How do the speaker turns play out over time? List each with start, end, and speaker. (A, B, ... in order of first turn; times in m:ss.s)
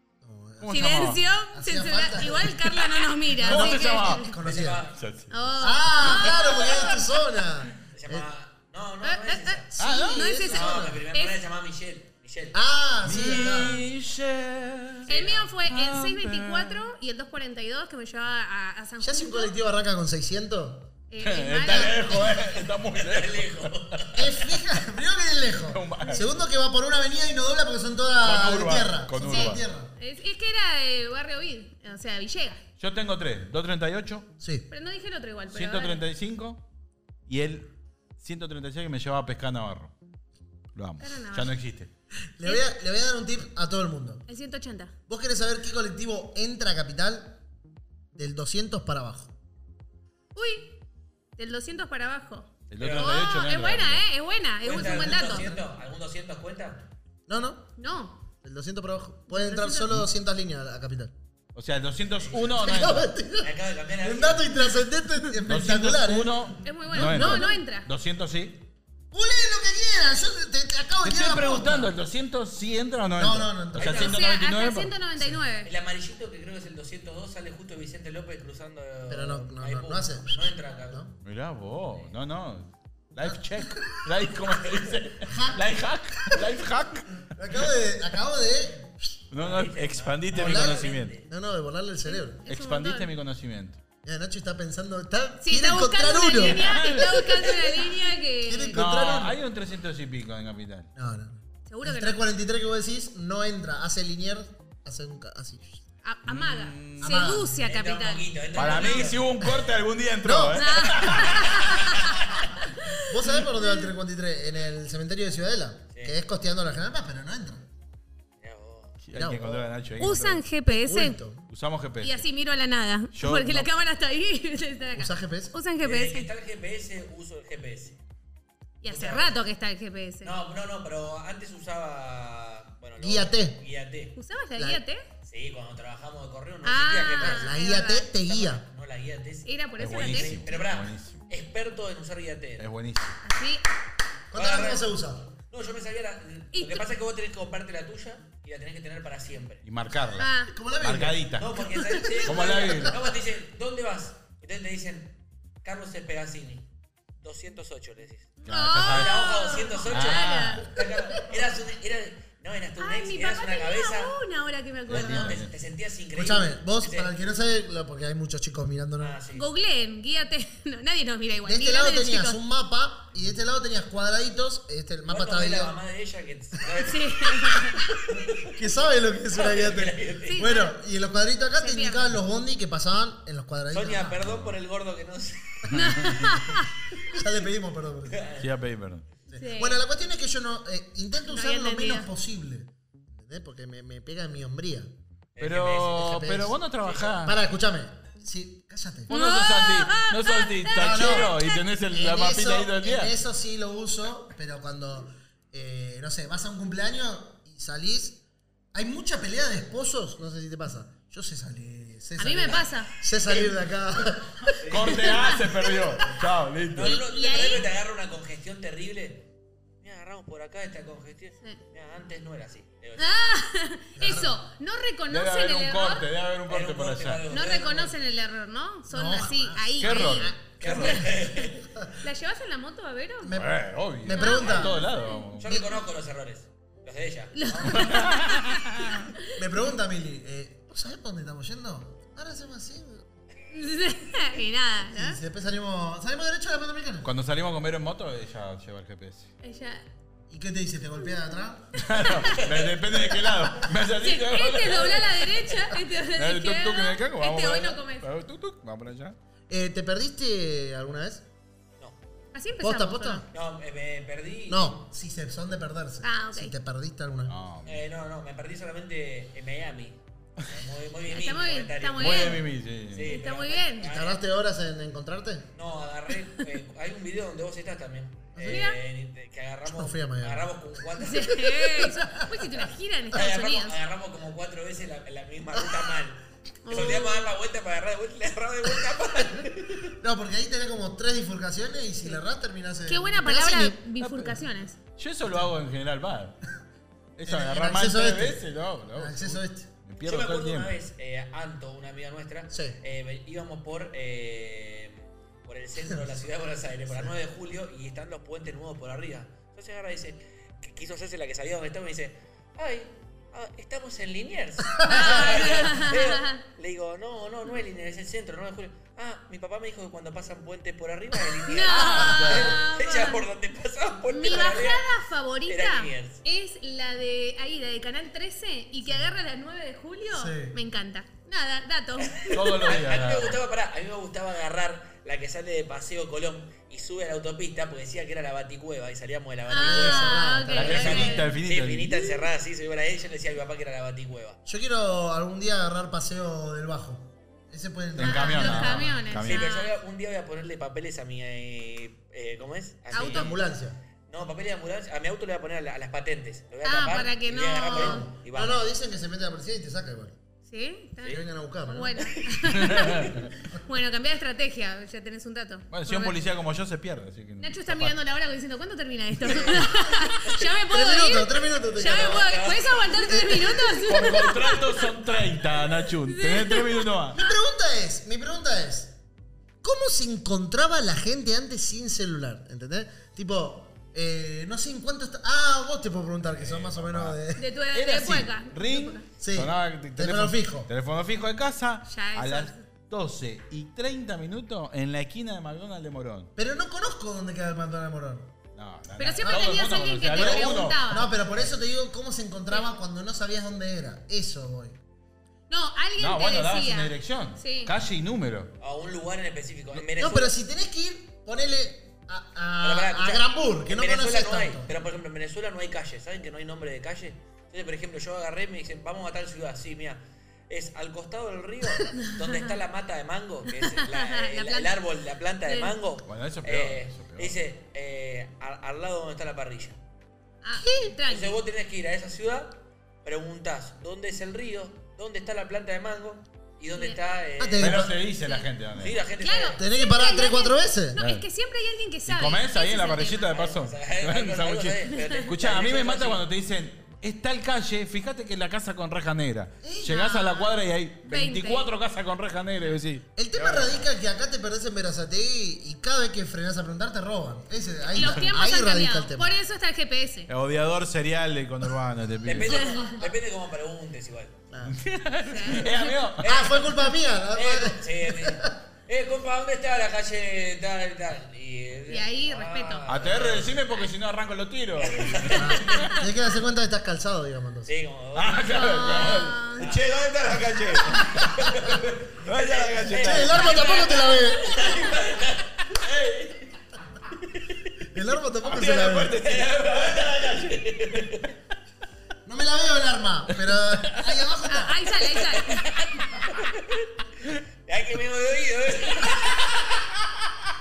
0:00.2-0:04.8 A
0:00.6-0:01.2 B
0:00.7-0:04.3 C
0:03.4-0:04.3 B
0:04.4-0:05.0 D
0:05.0-0:05.4 B
0:05.3-0:07.1 C
0:05.6-0:08.3 A
0:07.9-0:09.8 D
0:09.0-0:11.4 C
0:09.7-0:11.0 A
0:09.8-0:10.3 B
0:10.3-0:12.6 D
0:12.5-0:13.8 A
0:13.0-0:15.1 B
0:15.1-0:15.5 D
0:15.1-0:19.5 C
0:15.7-0:16.8 B
0:19.0-0:20.9 A
0:21.1-0:22.2 C
0:21.2-0:24.1 B
0:21.6-0:22.2 A
0:22.1-0:24.2 D
0:24.1-0:29.9 A
0:25.6-0:26.3 B
0:28.2-0:29.6 B
0:29.2-0:32.6 C
0:32.8-0:34.3 B
0:34.4-0:34.7 A
0:34.7-0:36.0 C
0:35.5-0:36.6 B
0:37.3-0:39.9 B
0:40.7-0:41.9 B
0:41.0-0:41.6 C
0:42.4-0:44.2 A
0:44.3-0:44.9 C
0:45.1-0:47.4 A
0:48.1-0:49.3 A
0:50.3-0:50.8 C
0:51.4-0:55.6 C
0:52.7-0:54.0 B
0:52.8-0:53.2 D
0:54.6-0:56.9 D
0:57.3-0:57.7 A
0:57.8-0:58.2 C
0:58.4-1:01.1 A
0:59.3-0:59.9 C
1:01.5-1:03.1 B
1:02.1-1:02.5 D
1:02.4-1:07.6 A
1:03.4-1:04.6 D
1:05.4-1:08.7 B
1:06.6-1:07.9 C
1:09.1-1:11.9 A
1:11.0-1:14.9 B
1:13.2-1:14.1 A
1:13.8-1:14.2 D
1:13.8-1:15.7 C
1:15.6-1:21.0 D
1:19.1-1:21.1 A
1:21.2-1:27.2 B
1:23.2-1:24.1 A
1:25.2-1:26.4 A
1:27.2-1:29.2 A
1:29.3-1:31.2 B
1:29.4-1:31.3 D
1:30.3-1:32.4 A
1:32.0-1:33.1 C
1:32.5-1:33.8 B
1:34.0-1:37.0 A
1:35.4-1:38.8 C
1:36.6-1:37.5 B
1:38.4-1:39.4 A
1:38.7-1:40.9 B
1:41.0-1:45.8 A
1:41.7-1:42.2 C
1:46.0-1:49.1 C
1:46.3-1:47.2 B
1:47.0-1:47.6 A
1:47.4-1:49.5 D
1:48.5-1:51.9 B
1:50.2-1:50.7 A
1:50.5-1:53.9 C
1:53.0-1:57.6 A
1:58.4-1:59.0 D
1:59.0-2:00.5 B
1:59.1-1:59.7 A
2:00.0-2:01.2 C
2:00.7-2:01.5 A
2:01.5-2:02.2 B
2:02.0-2:06.3 C
2:03.1-2:03.7 B
2:04.9-2:05.5 A
2:05.8-2:08.0 D
2:08.8-2:10.3 C
2:08.9-2:09.4 D
2:10.2-2:14.2 D
2:13.0-2:13.6 A
2:14.2-2:15.1 C
2:14.6-2:14.8 A
2:15.2-2:17.6 D
2:16.6-2:18.1 C
2:17.2-2:18.6 A
2:18.1-2:22.6 D
2:19.4-2:20.4 C
2:19.8-2:21.2 B
2:22.6-2:23.2 B
2:23.2-2:23.6 C
2:24.3-2:25.3 A
2:24.3-2:24.8 D
2:25.5-2:29.6 D
2:26.5-2:26.9 C
2:29.6-2:31.6 B
2:30.2-2:30.5 C
2:30.4-2:33.1 A
2:31.4-2:36.7 D
2:32.2-2:33.0 B
2:37.2-2:44.2 D
2:38.4-2:39.2 B
2:38.4-2:40.7 C
2:39.9-2:40.8 B
2:42.8-2:45.4 C
2:44.9-2:45.5 B
2:44.9-2:47.1 D
2:46.1-2:49.2 A
2:49.0-2:49.5 D
2:49.3-2:52.4 C
2:51.4-2:55.8 A
2:55.1-2:58.5 D
2:56.7-2:58.0 C
2:58.5-3:04.2 A
2:59.3-3:00.4 D
3:00.2-3:00.8 C
3:01.6-3:02.1 C
3:03.7-3:05.9 D
3:04.2-3:04.6 B
3:05.7-3:06.4 B
3:05.7-3:06.7 C
3:07.1-3:08.3 A
3:08.1-3:08.5 D
3:08.4-3:09.1 B
3:09.3-3:14.9 A
3:09.3-3:09.8 C
3:11.2-3:12.1 C
3:15.3-3:16.1 D
3:15.4-3:17.4 B
3:15.9-3:16.6 A
3:16.8-3:17.2 D
3:17.2-3:19.1 A
3:19.1-3:21.6 C
3:19.1-3:23.1 B
3:20.8-3:21.3 A
3:21.9-3:28.2 A
3:28.7-3:34.6 A
3:32.2-3:33.0 C
3:34.6-3:35.0 D
3:34.6-3:37.0 B
3:34.9-3:35.4 C
3:36.7-3:39.3 D
3:36.8-3:37.7 C
3:39.8-3:43.2 D
3:43.0-3:46.1 C
3:44.0-3:44.4 A
3:45.1-3:47.2 B
3:46.5-3:48.0 D
3:47.3-3:53.4 C
3:48.9-3:51.1 A
3:49.8-3:50.3 B
3:50.5-3:51.6 D
3:53.2-3:54.8 A
3:53.3-3:55.6 B
3:54.1-3:55.3 C
3:55.4-3:58.1 D
3:55.5-3:55.8 A
3:57.3-3:59.4 C
3:57.6-3:59.1 B
3:59.4-4:03.0 A
4:03.5-4:05.2 C
4:04.9-4:07.1 A
4:07.0-4:09.3 B
4:09.4-4:09.8 C
4:10.3-4:12.0 A
4:11.8-4:19.2 B
4:11.9-4:12.4 C
4:14.0-4:18.1 C
4:19.5-4:21.2 A
4:22.3-4:23.2 C
4:22.6-4:23.2 A
4:23.3-4:24.8 D
4:24.5-4:27.3 A
4:26.0-4:26.5 C
4:27.3-4:27.8 B
4:27.6-4:34.2 D
4:31.1-4:32.5 C
4:32.0-4:33.2 B
4:33.0-4:33.9 C
4:33.8-4:35.5 A
4:35.5-4:41.8 D
4:38.3-4:38.7 A
4:38.4-4:38.8 C
4:39.7-4:40.5 A
4:40.9-4:43.8 C
4:41.8-4:42.3 A
4:43.1-4:49.9 D
4:46.6-4:47.3 C
4:49.8-4:53.8 A
4:52.9-4:54.8 C
4:54.0-4:54.4 B
4:55.0-4:56.4 B
4:57.2-5:00.8 B
4:57.2-4:59.7 A
5:00.0-5:24.9 D
5:02.5-5:02.8 A
5:14.7-5:15.3 A
5:14.8-5:16.4 C
5:21.4-5:23.2 C
5:21.7-5:22.6 B
5:22.2-5:22.6 A
5:24.1-5:32.7 C
5:25.4-5:26.2 D
5:30.1-5:30.6 A
5:32.0-5:44.4 D
5:32.3-5:33.4 B
5:39.5-5:41.3 C
5:39.6-5:41.2 A
5:40.6-5:41.9 B
5:41.9-5:42.3 C
5:44.4-5:49.0 A
5:47.9-5:49.5 B
5:48.0-5:49.7 C
5:49.2-5:53.4 D
5:52.9-5:53.8 A
5:52.9-5:53.4 C
5:54.1-5:58.6 D
5:56.6-5:58.1 C
5:57.7-6:00.2 A
6:00.5-6:06.2 C
6:01.0-6:02.1 A
6:02.1-6:02.3 D
6:02.5-6:03.3 B
6:05.7-6:08.0 B
6:07.4-6:14.9 C
6:09.2-6:10.5 D
6:10.7-6:12.4 A
6:11.6-6:13.1 D
6:13.0-6:14.0 A
6:13.8-6:17.2 B
6:16.0-6:17.3 C
6:17.1-6:19.0 A
6:19.6-6:27.4 A
6:26.3-6:36.3 B
6:27.4-6:29.0 C
6:29.2-6:30.7 A
6:31.8-6:32.6 C
6:36.4-6:38.3 A
6:38.6-6:41.0 B
6:39.0-6:41.1 C
6:39.2-6:39.5 A
6:40.1-6:44.8 A
6:45.5-6:47.7 C
6:46.0-6:48.5 B
6:48.6-6:50.3 D
6:49.9-6:54.7 A
6:52.6-7:09.8 D
7:01.9-7:02.5 C
7:03.5-7:04.8 C
7:05.4-7:05.7 C
7:06.0-7:07.3 B
7:10.4-7:11.4 C
7:10.6-7:11.0 A
7:11.1-7:17.9 D
7:16.7-7:17.0 C
7:17.4-7:18.0 A
7:17.6-7:19.0 B
7:18.8-7:19.6 D
7:19.2-7:23.3 C
7:19.6-7:21.0 A
7:21.0-7:21.2 B
7:22.0-7:33.8 B
7:23.1-7:26.2 D
7:24.9-7:25.3 C
7:29.6-7:30.0 A
7:29.8-7:30.5 C
7:31.0-7:31.7 C
7:33.1-7:39.3 A
7:37.9-7:40.3 C
7:40.3-7:42.7 B
7:42.2-7:44.4 D
7:42.4-7:43.1 C
7:44.5-7:44.8 A
7:44.6-7:46.5 B
7:45.2-7:45.9 C
7:46.2-7:53.6 D
7:46.2-7:48.6 A
7:51.9-7:53.0 C
7:52.9-7:56.0 B
7:54.8-7:55.8 D
7:55.3-7:57.7 A
7:55.7-7:56.0 C
7:57.6-8:03.8 D
7:58.1-8:03.5 B
7:58.5-7:59.7 C
8:01.4-8:01.8 A
8:03.0-8:04.7 A
8:03.2-8:04.8 C
8:04.4-8:06.5 D
8:07.1-8:07.7 D
8:07.9-8:09.2 A
8:08.4-8:11.3 D
8:08.6-8:10.6 B
8:12.2-8:15.1 A
8:14.4-8:15.8 C
8:15.2-8:19.8 D